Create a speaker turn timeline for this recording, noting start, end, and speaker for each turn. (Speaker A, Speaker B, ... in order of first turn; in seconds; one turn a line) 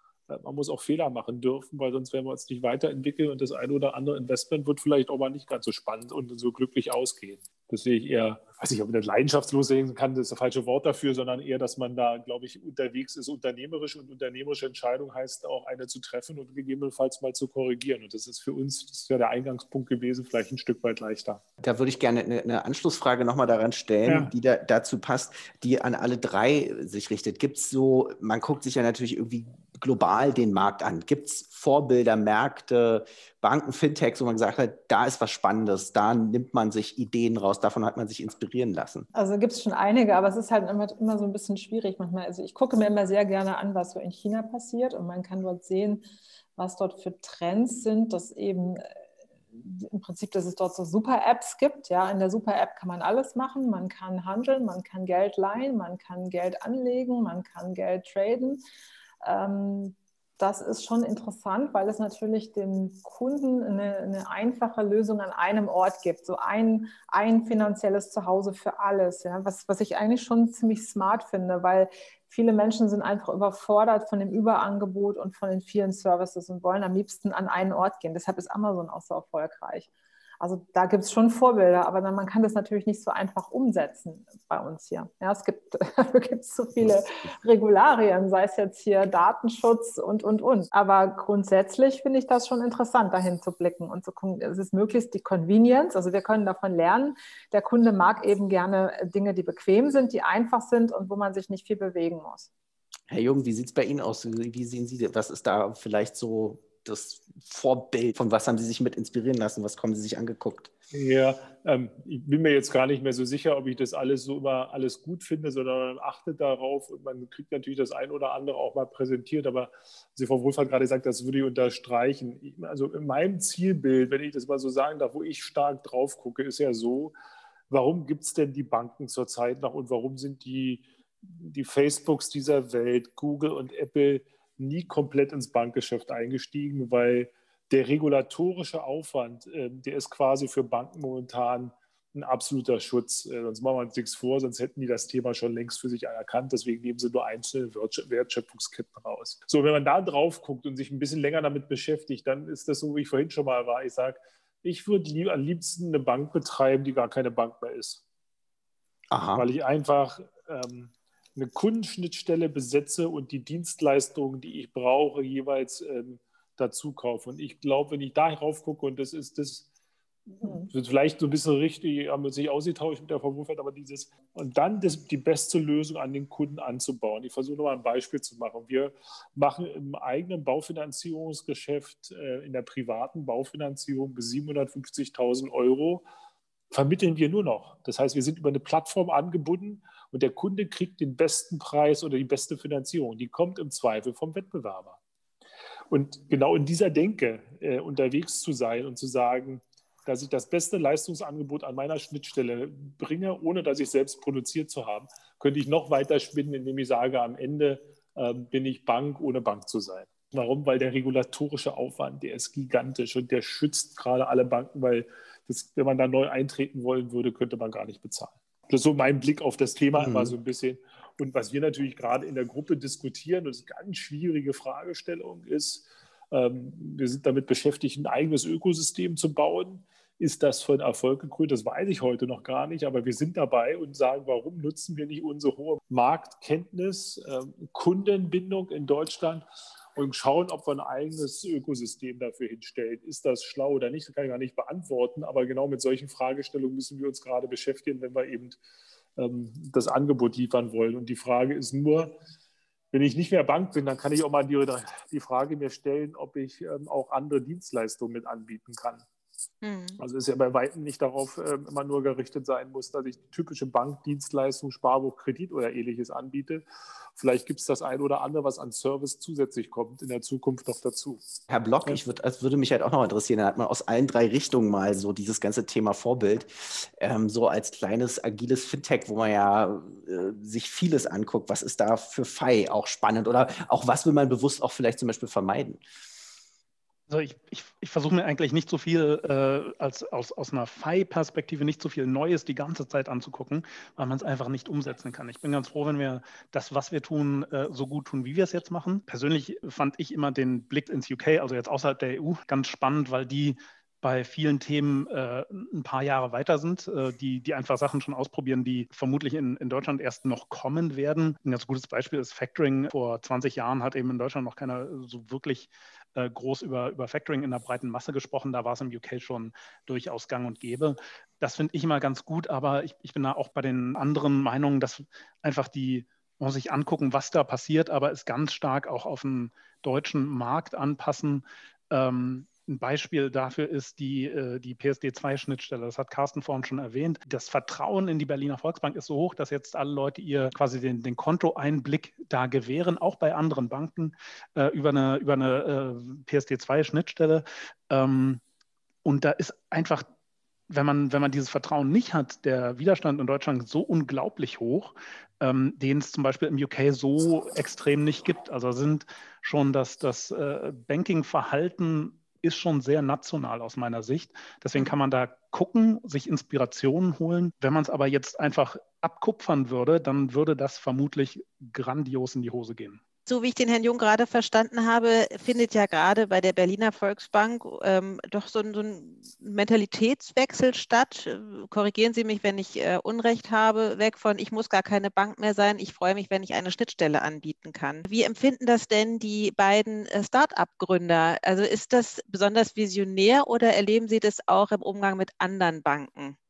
Speaker A: 0.3-21.4
Speaker B: 21.6-39.1
Speaker A: 24.0-24.3
Speaker C: 39.1-48.9
Speaker C: 49.5-58.6
Speaker C: 59.2-79.9
Speaker C: 80.4-102.5
Speaker B: 103.1-110.7
Speaker A: 110.9-127.1
Speaker A: 127.7-158.0
Speaker B: 159.1-159.4
Speaker A: 159.3-169.7
Speaker A: 170.3-186.0
Speaker C: 170.4-170.7
Speaker A: 186.7-195.0
Speaker A: 195.9-239.4
Speaker B: 220.0-220.3
Speaker A: 239.9-248.6
Speaker A: 249.2-252.2
Speaker A: 252.9-259.0
Speaker D: 259.6-260.0
Speaker A: 260.0-266.6
Speaker A: 267.1-271.2
Speaker B: 271.5-285.8
Speaker E: 287.1-348.4
Speaker E: 349.0-350.1
Speaker E: 350.7-373.0
Speaker D: 373.3-396.4